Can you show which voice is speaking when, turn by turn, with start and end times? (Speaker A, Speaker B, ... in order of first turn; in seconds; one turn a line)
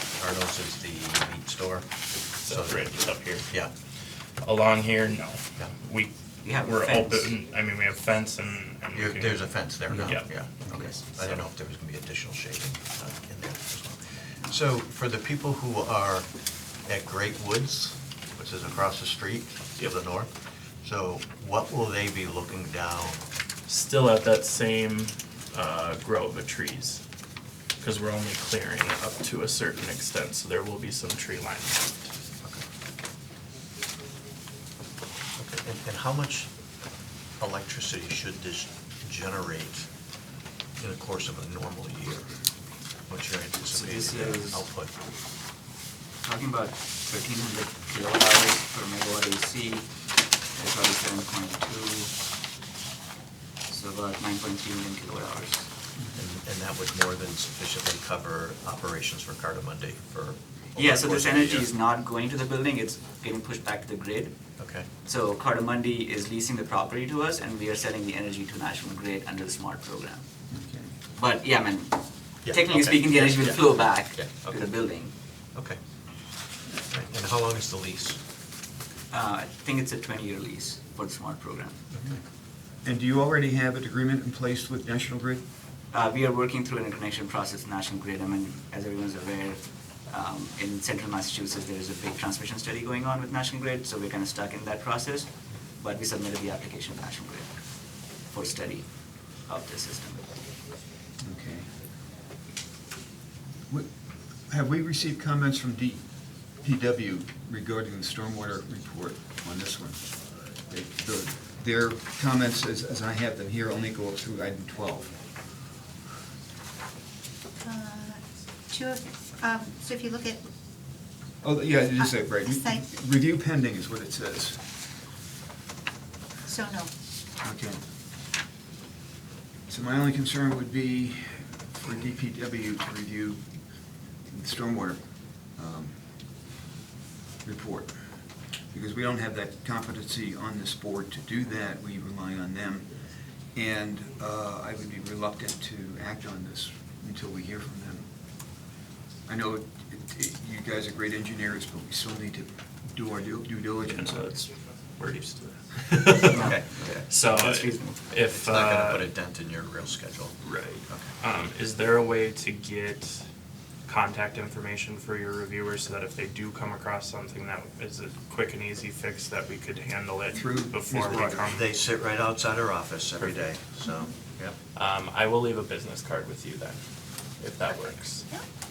Speaker A: 0.2-1.9
Speaker B: 2.5-3.5
Speaker A: 2.5-2.9
Speaker A: 3.4-3.7
Speaker B: 4.4-9.5
Speaker C: 6.4-7.3
Speaker A: 8.9-16.3
Speaker B: 10.0-10.6
Speaker C: 10.7-11.0
Speaker A: 16.9-20.3
Speaker A: 20.8-23.2
Speaker B: 23.7-27.0
Speaker B: 27.8-32.0
Speaker A: 35.4-36.5
Speaker A: 37.4-39.9
Speaker A: 40.8-42.3
Speaker A: 43.1-44.9
Speaker C: 43.7-44.7
Speaker C: 46.2-49.9
Speaker C: 50.5-52.1
Speaker C: 53.7-55.7
Speaker A: 56.2-61.7
Speaker C: 60.8-64.3
Speaker A: 64.6-64.9
Speaker C: 65.0-70.2
Speaker D: 70.5-70.9
Speaker C: 71.2-75.1
Speaker A: 72.5-74.7
Speaker A: 76.9-78.2
Speaker C: 79.1-81.8
Speaker D: 82.8-85.4
Speaker C: 85.9-97.5
Speaker C: 98.2-100.3
Speaker D: 101.2-101.7
Speaker D: 104.5-115.2
Speaker E: 117.6-120.5
Speaker D: 121.4-124.6
Speaker E: 122.5-122.8
Speaker E: 126.5-126.9
Speaker D: 127.4-127.8
Speaker D: 129.7-133.5
Speaker D: 134.3-136.0
Speaker D: 137.4-138.0
Speaker D: 138.7-142.9
Speaker D: 143.6-148.1
Speaker D: 149.3-154.4
Speaker B: 153.9-156.5
Speaker A: 156.2-156.7
Speaker C: 156.2-158.1
Speaker B: 157.1-159.1
Speaker A: 158.3-160.4
Speaker B: 160.4-163.2
Speaker B: 163.9-171.7
Speaker D: 170.3-171.5
Speaker A: 171.0-174.6
Speaker B: 174.8-176.8
Speaker B: 177.4-178.3